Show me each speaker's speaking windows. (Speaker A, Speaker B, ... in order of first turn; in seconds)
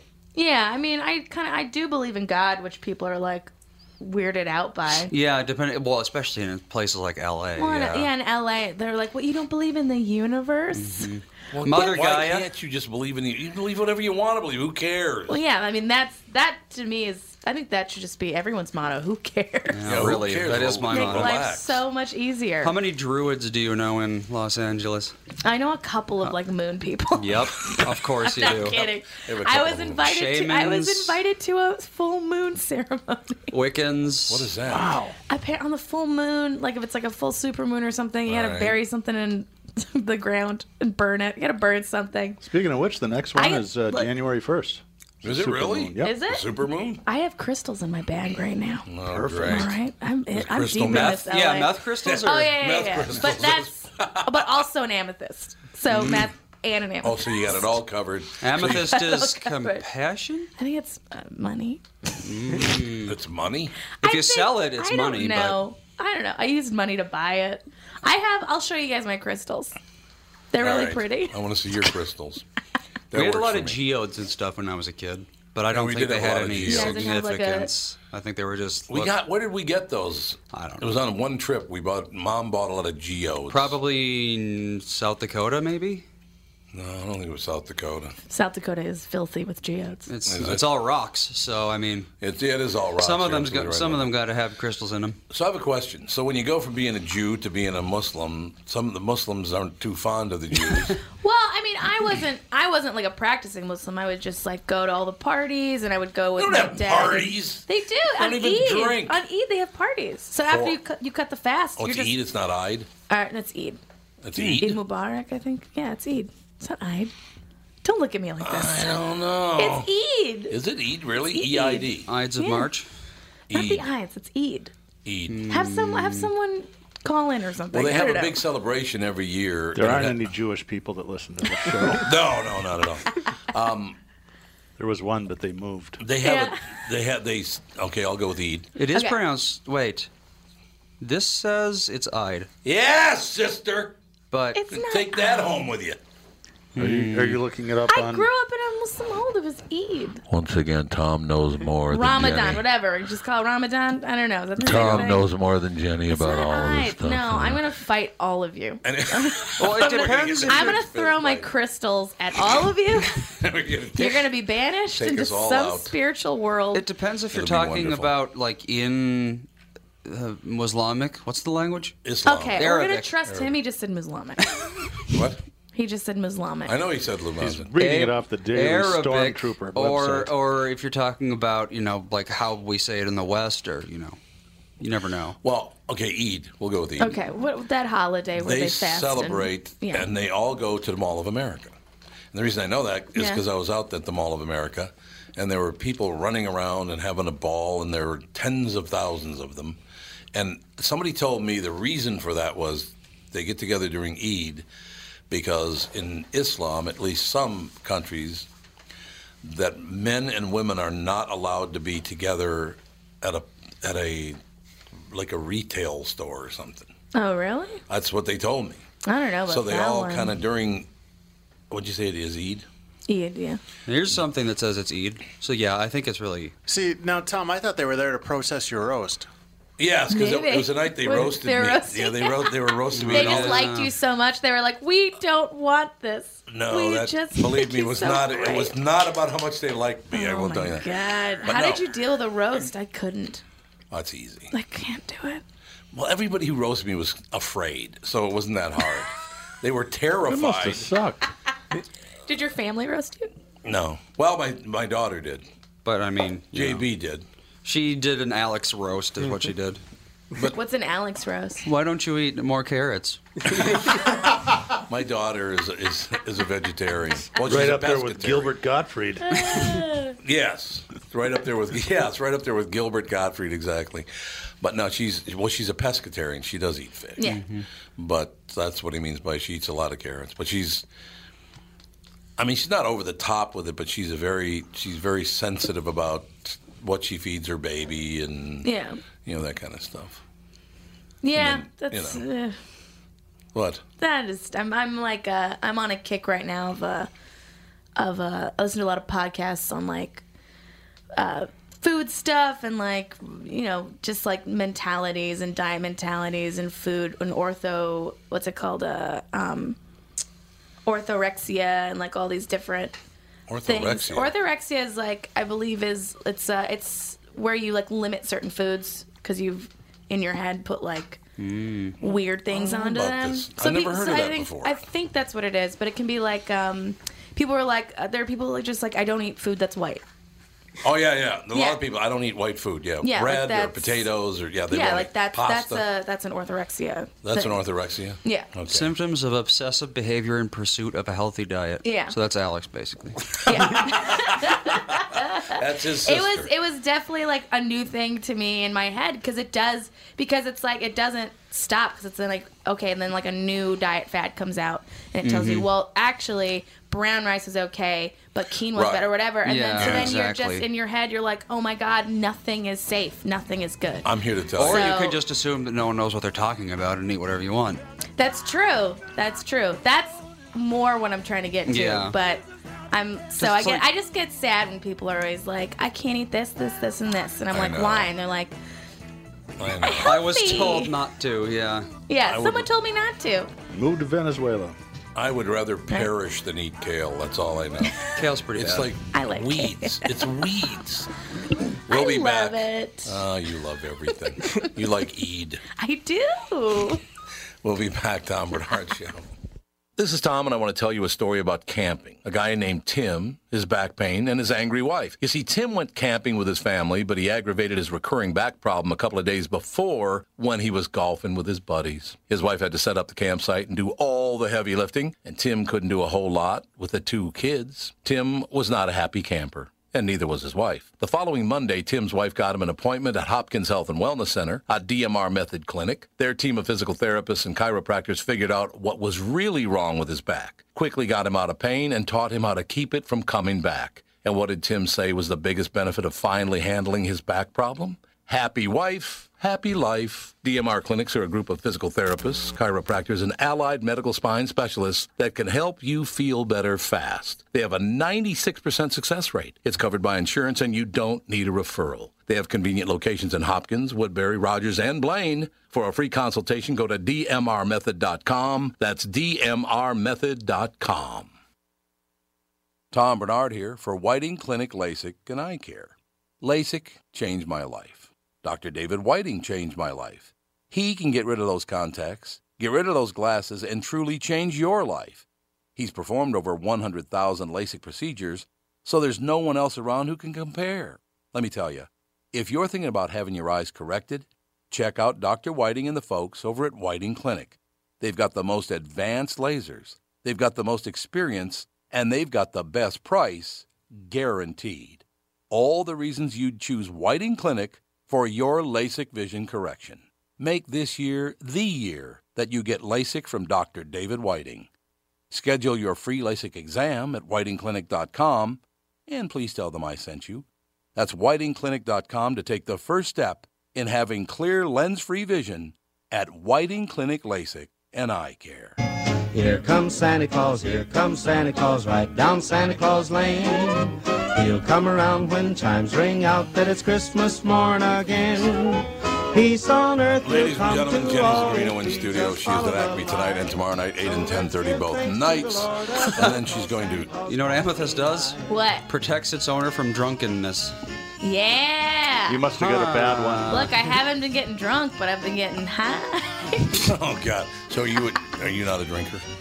Speaker A: 0.3-5.1, 7.6-11.1, 15.3-20.2, 20.9-22.7, 25.4-33.5, 35.3-42.4, 43.4-44.1, 46.0-46.5, 47.0-48.9, 49.4-57.7, 58.6-59.8, 60.6-61.8, 64.0-69.8, 70.5-71.3, 76.6-77.7, 88.3-90.1, 101.1-112.1, 113.1-113.8, 114.4-117.1, 117.8-119.0, 119.5-120.6, 121.3-121.8, 122.4-122.7, 123.5-124.7, 125.5-128.4, 136.2-136.6, 138.9-139.2, 144.5-145.6, 147.9-150.2, 151.9-155.3, 156.1-163.2, 164.0-166.8, 172.2-174.6, 175.7-176.7, 187.0-190.1, 193.2-193.4, 217.1-217.8, 219.0-220.4, 223.1-223.6, 230.1-238.7, 240.1-243.4, 244.5-245.4, 252.3-253.3, 260.5-261.6, 269.2-270.2, 277.2-277.4, 288.6-289.0, 291.2-292.6, 294.0-297.1, 297.9-300.2, 301.1-309.8, 310.9-312.9, 313.7-321.2, 322.0-330.0, 331.5-331.8, 333.0-334.0, 334.7-337.6, 341.8-342.1, 343.4-364.1, 364.6-365.2, 368.2-378.5, 379.8-380.9, 382.1-383.5, 389.1-390.3, 391.9-393.2, 395.8-397.0, 538.5-538.8, 541.2-542.5, 543.5-546.9
Speaker B: 5.1-8.1, 10.7-12.4, 19.7-21.4, 22.6-25.1, 27.1-28.8, 30.0-31.2, 33.5-34.5, 50.9-52.5, 55.9-56.2, 58.4-60.5, 62.2-63.1, 64.0-65.6, 73.1-79.1, 80.5-80.9, 83.5-86.0, 90.1-92.1, 93.0-95.2, 122.1-122.9, 125.3-126.3, 138.8-140.1, 141.0-142.5, 144.3-144.6, 146.7-147.4, 159.6-160.8, 166.7-169.5, 170.0-171.9, 172.6-173.2, 177.8-184.2, 184.8-185.4, 223.9-226.5, 232.9-233.9, 255.8-256.8, 257.6-259.8, 261.6-263.7, 277.2-277.6, 321.4-322.0, 338.7-343.3, 355.2-355.7, 359.4-360.6, 364.6-367.8, 371.7-372.1, 373.4-373.9, 380.0-381.9, 388.1-388.9, 537.2-540.7, 542.6-544.0
Speaker C: 11.5-15.4, 19.9-21.8, 29.1-30.1, 34.3-34.9, 38.3-38.8, 45.2-47.0, 48.9-49.8, 50.3-51.3, 52.0-54.5, 56.0-56.2, 57.0-58.9, 63.0-63.7, 70.6-72.4, 73.1-73.8, 75.7-77.1, 78.9-83.8, 86.7-88.1, 90.2-90.6, 92.2-94.1, 95.3-101.0, 106.4-107.7, 108.2-109.2, 110.5-110.8, 111.8-112.9, 114.2-114.8, 118.4-119.9, 120.5-122.1, 123.5-123.8, 125.0-125.4, 127.7-130.3, 131.9-134.0, 136.0-138.7, 142.6-144.0, 144.7-146.0, 154.6-155.2, 158.8-161.5, 163.2-164.3, 164.9-165.9, 167.3-168.1, 172.0-172.7, 175.1-175.4, 176.7-177.7, 185.4-187.2, 188.4-191.7, 192.3-199.8, 200.3-204.7, 205.3-208.5, 209.4-214.4, 215.1-216.9, 217.9-218.8, 219.5-220.9, 221.7-222.7, 229.8-233.6, 236.5-240.9, 241.4-241.8, 243.9-244.5, 245.9-250.9, 253.6-255.4, 256.5-257.2, 263.6-264.1, 264.9-268.5, 270.2-274.1, 274.6-277.2, 277.9-280.9, 282.4-288.7, 289.2-290.2, 291.4-292.2, 293.5-293.8, 313.5-314.3, 322.5-324.8, 330.8-335.8, 337.2-338.9, 343.6-346.5, 358.7-359.1, 359.8-360.2, 364.0-364.9, 377.5-378.1, 379.6-380.1, 382.2-382.7, 385.1-388.0, 388.5-391.1, 391.9-395.6, 397.6-399.3, 400.0-461.3, 462.9-475.2, 475.8-504.7, 505.3-518.8, 530.2-537.2, 546.8-549.2
Speaker D: 34.7-35.2, 42.4-46.1, 49.1-49.8, 129.7-132.1, 134.8-136.0, 146.8-148.3, 177.4-180.3, 250.3-251.2, 267.4-269.5, 383.7-384.8, 542.3-543.7
Speaker E: 150.3-152.6, 154.6-157.6
Speaker F: 226.7-229.3
Speaker G: 519.3-533.5, 534.1-538.2